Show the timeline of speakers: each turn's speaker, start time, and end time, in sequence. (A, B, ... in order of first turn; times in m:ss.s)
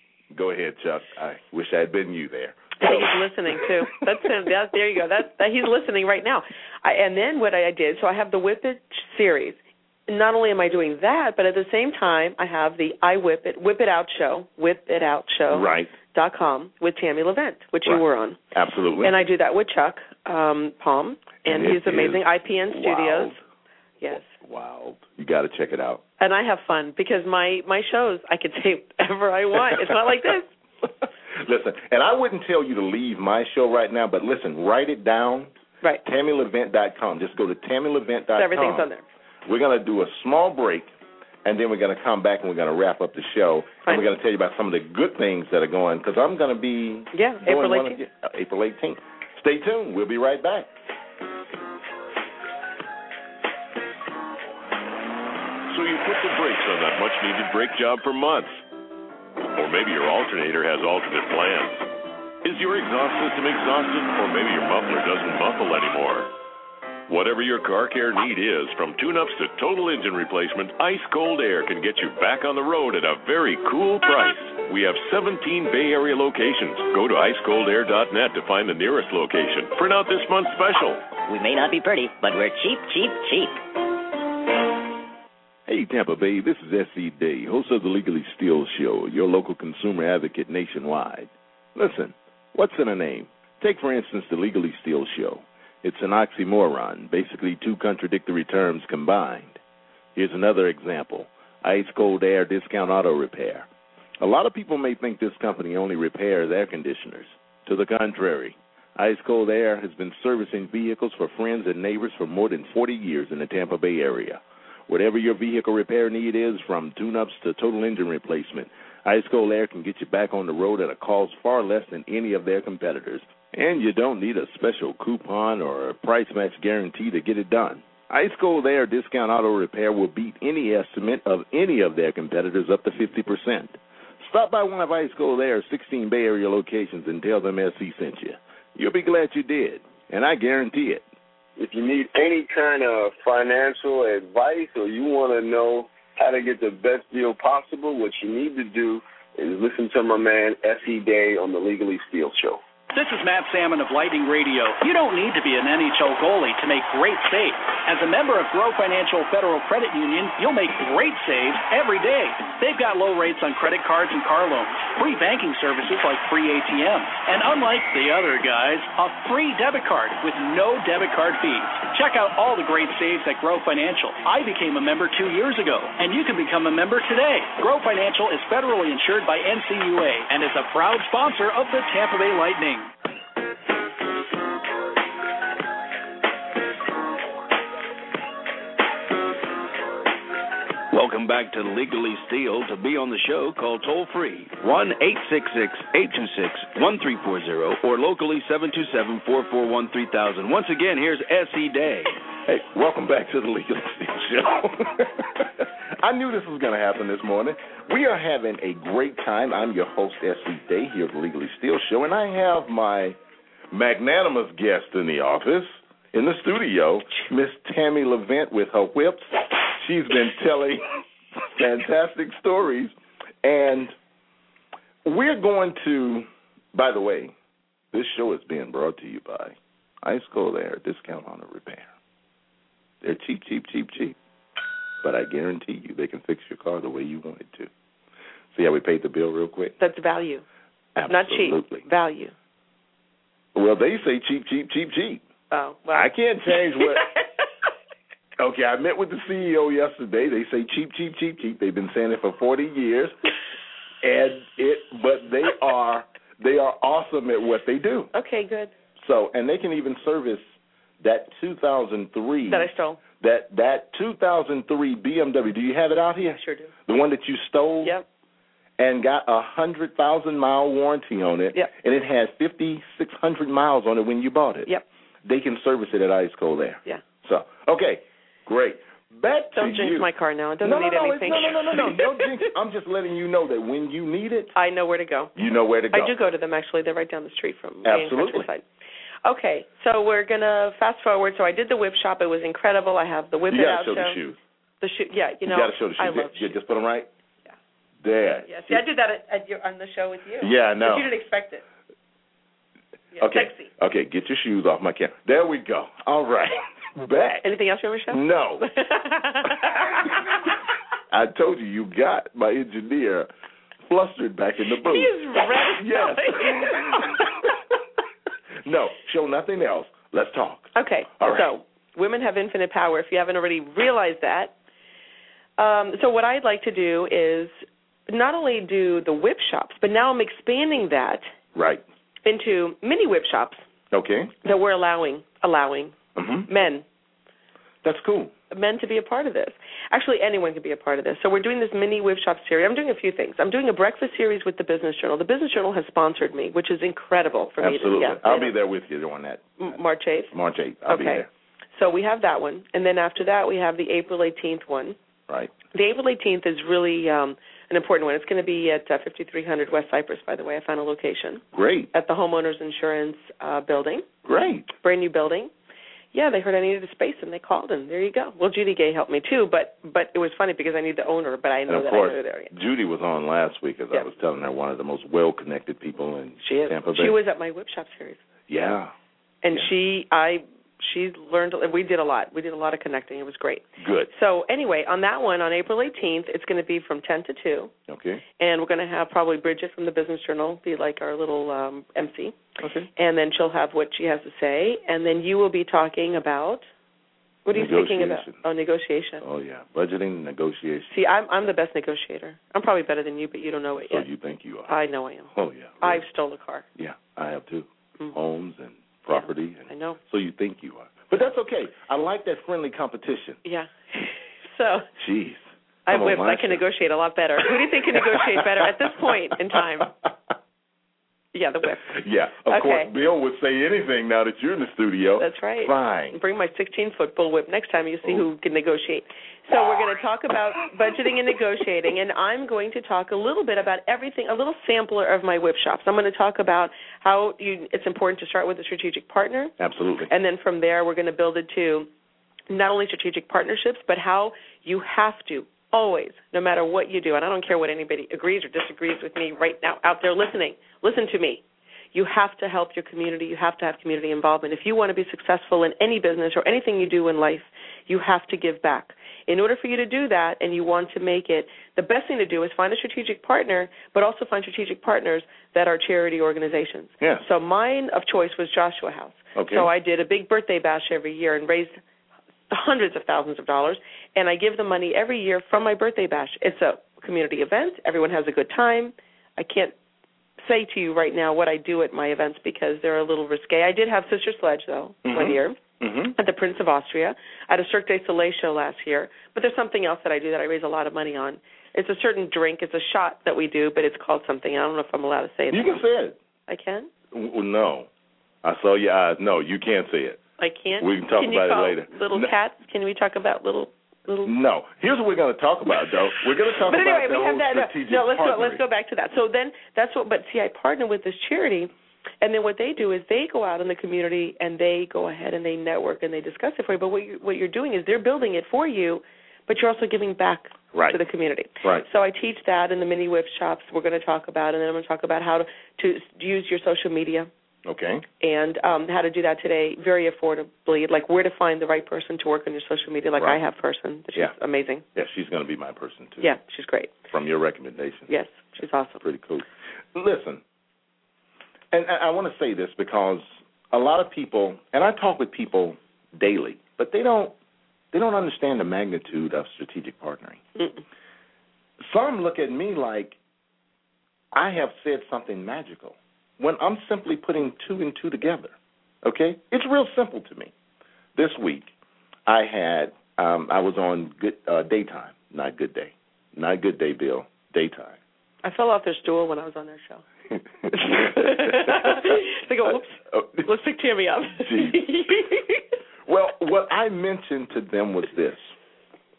0:00.3-0:03.6 A
0:02.8-0:18.4 B
0:15.5-0:15.9 A
0:17.8-0:19.1 A
0:19.0-0:23.3 B
0:21.4-0:23.4 A
0:24.0-0:24.2 B
0:24.1-0:26.0 A
0:26.2-0:30.5 B
0:31.3-0:35.5 A
0:36.0-0:38.9 A
0:38.3-0:39.0 B
0:39.4-0:40.9 A
0:41.4-0:50.7 A
0:47.1-0:48.0 B
0:55.7-0:58.6 C
0:59.5-1:01.8 C
1:02.4-1:06.3 C
1:07.1-1:21.0 C
1:21.3-1:23.6 D
1:25.7-1:39.6 A
1:40.2-1:43.7 A
1:44.2-2:21.0 A
2:21.6-2:32.6 E
2:32.9-3:02.9 F
3:10.9-3:22.1 G
3:22.4-3:33.2 A
3:33.7-3:40.8 A
3:41.5-3:43.9 A
3:45.0-3:47.3 A
3:47.9-3:51.9 A
3:53.0-3:54.2 A
3:55.0-3:57.7 A
3:58.5-3:59.7 A
3:59.8-4:00.4 B
4:00.9-4:01.8 A
4:01.1-4:02.3 B
4:03.5-4:05.2 A
4:05.5-4:06.1 B
4:05.9-4:07.0 A
4:08.4-4:13.2 A
4:14.0-4:18.1 A
4:18.1-4:18.7 B
4:19.0-4:20.5 A
4:21.0-4:27.9 A
4:22.5-4:23.0 B
4:26.3-4:26.7 B
4:28.8-4:34.7 A
4:35.2-4:40.1 A
4:39.6-4:42.4 B
4:40.6-4:44.5 A
4:44.5-4:45.3 B
4:45.3-4:46.1 A
4:45.9-4:48.6 B
4:47.8-4:48.5 A
4:49.2-4:54.2 B
4:53.5-4:54.4 A
4:54.8-4:56.6 B
4:55.4-4:57.1 A
4:58.0-4:58.8 A
4:58.5-5:01.6 B
5:00.4-5:01.1 A
5:03.1-5:03.7 B
5:03.2-5:07.4 A
5:07.4-5:10.1 B
5:08.1-5:08.6 A
5:11.1-5:13.3 A
5:13.8-5:17.2 A
5:14.8-5:17.2 B
5:18.6-5:21.5 A
5:20.7-5:24.5 B
5:25.6-5:31.3 B
5:31.5-5:31.8 A
5:32.2-5:33.6 B
5:33.9-5:34.3 A
5:34.4-5:36.0 B
5:36.1-5:36.5 A
5:36.5-5:36.8 B
5:37.8-5:38.3 A
5:38.5-5:48.5 B
5:47.6-5:49.8 A
5:49.6-5:50.3 B
5:50.3-5:51.3 A
5:50.9-5:55.0 B
5:55.3-5:55.5 A
5:55.7-6:04.0 B
6:01.5-6:01.9 A
6:04.2-6:04.7 A
6:04.8-6:05.5 B
6:06.1-6:12.5 B
6:11.7-6:17.2 A
6:16.4-6:18.2 B
6:18.5-6:18.9 A
6:19.4-6:27.7 B
6:23.8-6:24.1 A
6:27.9-6:28.2 A
6:28.4-6:32.4 B
6:32.6-6:32.9 A
6:33.0-6:36.7 B
6:37.4-6:39.2 B
6:37.5-6:38.4 A
6:39.2-6:40.9 A
6:40.9-6:44.0 B
6:43.9-6:44.7 A
6:44.7-6:46.6 B
6:45.3-6:46.0 A
6:46.8-6:53.4 A
6:49.1-6:50.0 B
6:53.4-6:54.9 B
6:55.0-6:56.6 A
6:55.9-6:59.9 B
6:57.9-6:59.1 A
7:01.3-7:01.9 B
7:01.8-7:06.2 A
7:02.4-7:02.9 B
7:05.2-7:19.5 B
7:19.6-7:20.1 A
7:20.1-7:21.9 B
7:22.5-7:31.4 B
7:31.9-7:51.8 B
7:49.3-7:49.7 A
7:52.5-7:59.7 B
8:00.4-8:05.6 B
8:05.0-8:06.1 A
8:06.2-8:15.8 B
8:15.5-8:16.2 A
8:16.5-8:16.9 B
8:17.1-8:17.9 A
8:18.4-8:20.2 A
8:20.4-8:24.3 B
8:20.8-8:22.3 A
8:24.2-8:28.6 A
8:26.6-8:47.3 B
8:40.7-8:41.0 A
8:47.6-8:48.0 A
8:48.2-8:54.8 B
8:53.2-8:53.4 A
8:54.9-8:56.3 A
8:56.2-8:56.9 B
8:57.1-8:58.1 A
8:58.1-8:59.0 B
8:59.0-9:00.4 A
9:01.7-9:07.3 A
9:07.9-9:10.4 A
9:10.6-9:10.8 B
9:11.8-9:13.2 A
9:14.3-9:20.5 A
9:21.1-9:21.7 A
9:22.2-9:28.0 A
9:28.4-9:30.0 B
9:30.3-9:32.1 A
9:30.7-9:35.6 B
9:33.1-9:33.5 A
9:34.3-9:34.9 A
9:36.0-9:38.5 A